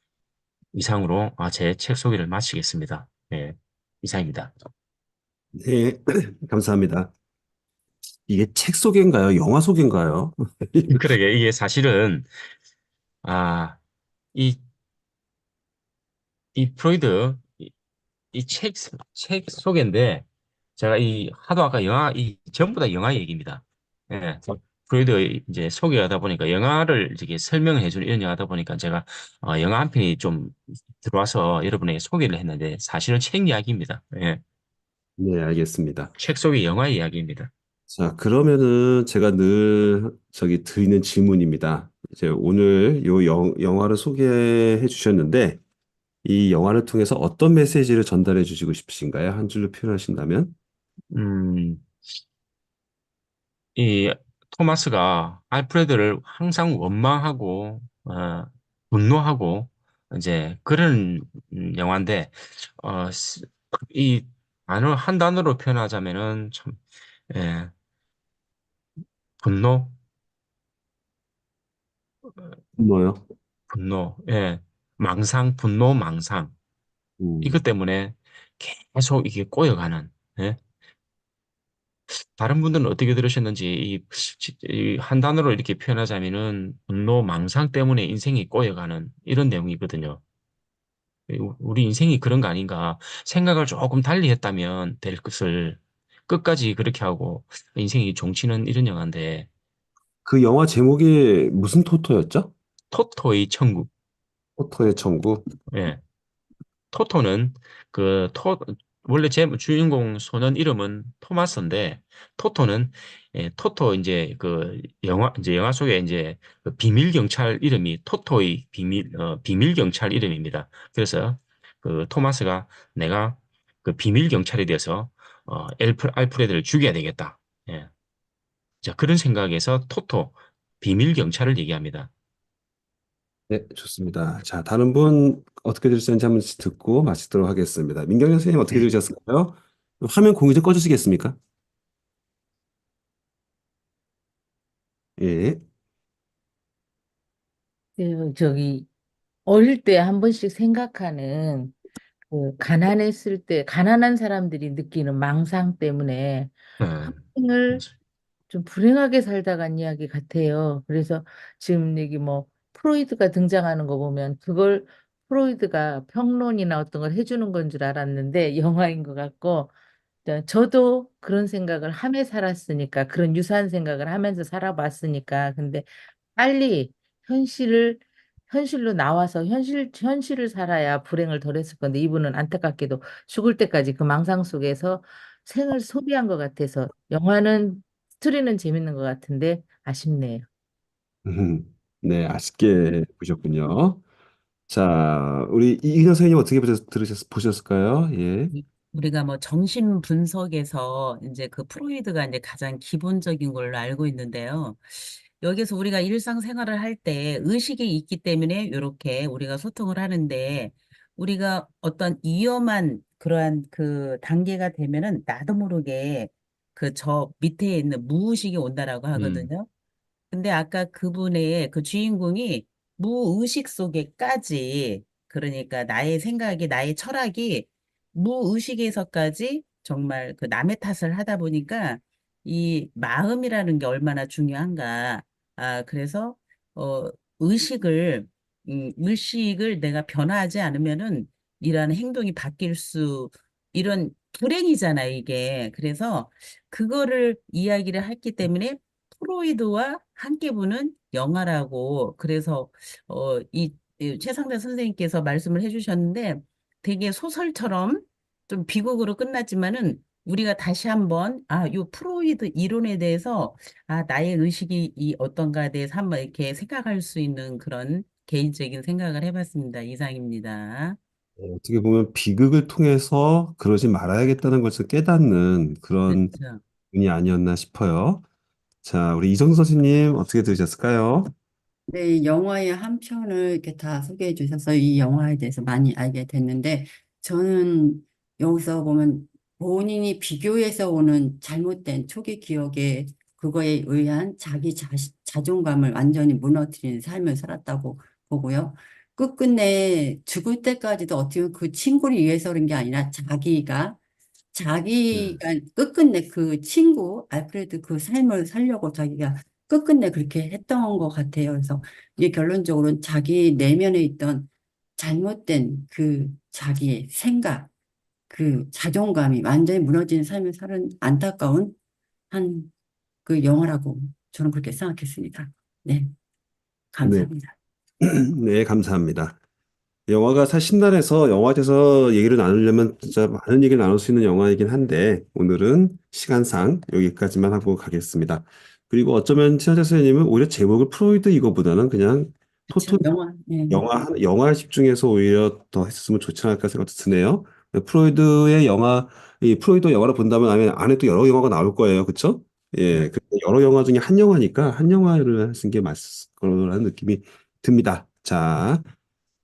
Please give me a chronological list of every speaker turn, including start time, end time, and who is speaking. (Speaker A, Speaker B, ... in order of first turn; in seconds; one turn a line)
Speaker A: 0.7-4.5
Speaker B: 5.5-7.1
Speaker B: 8.3-11.0
Speaker A: 10.9-12.3
Speaker A: 13.2-13.8
Speaker A: 14.3-14.6
Speaker A: 16.6-17.7
Speaker A: 18.3-20.2
Speaker A: 20.8-34.4
Speaker B: 35.2-36.1
Speaker A: 36.2-37.5
Speaker B: 37.9-45.6
Speaker B: 46.2-50.5
Speaker A: 51.1-51.9
Speaker A: 53.8-66.8
Speaker A: 67.3-67.7
Speaker A: 69.4-70.0
Speaker B: 72.8-73.2
Speaker A: 73.7-76.5
Speaker B: 77.2-77.6
Speaker A: 77.4-80.6
Speaker A: 82.1-90.2
Speaker A: 91.3-99.5
Speaker B: 100.2-102.5
Speaker A: 102.9-103.9
Speaker B: 104.6-105.5
Speaker A: 105.7-106.0
Speaker A: 106.9-127.9
Speaker A: 128.8-132.1
Speaker B: 133.5-141.4
Speaker B: 145.2-145.6
Speaker C: 148.0-148.9
Speaker C: 149.5-151.8
Speaker C: 152.3-157.8
Speaker A: 156.8-157.9
Speaker C: 158.5-169.7
Speaker C: 170.2-190.5
Speaker B: 191.2-194.0
Speaker B: 194.7-198.5
Speaker D: 198.5-219.7
Speaker A: 219.1-219.5
Speaker D: 220.3-271.0
Speaker B: 271.4-276.3
Speaker D: 276.1-276.6
Speaker B: 276.9-278.2
Speaker B: 278.8-281.3
Speaker E: 281.9-304.0
Speaker E: 304.5-317.7
Speaker E: 318.3-321.8
Speaker E: 322.3-322.7
Speaker E: 323.2-326.1
Speaker E: 326.9-327.5
Speaker B: 327.0-327.3
Speaker B: 328.0-329.4
Speaker B: 330.1-343.1
Speaker E: 342.7-343.9
Speaker B: 343.7-358.9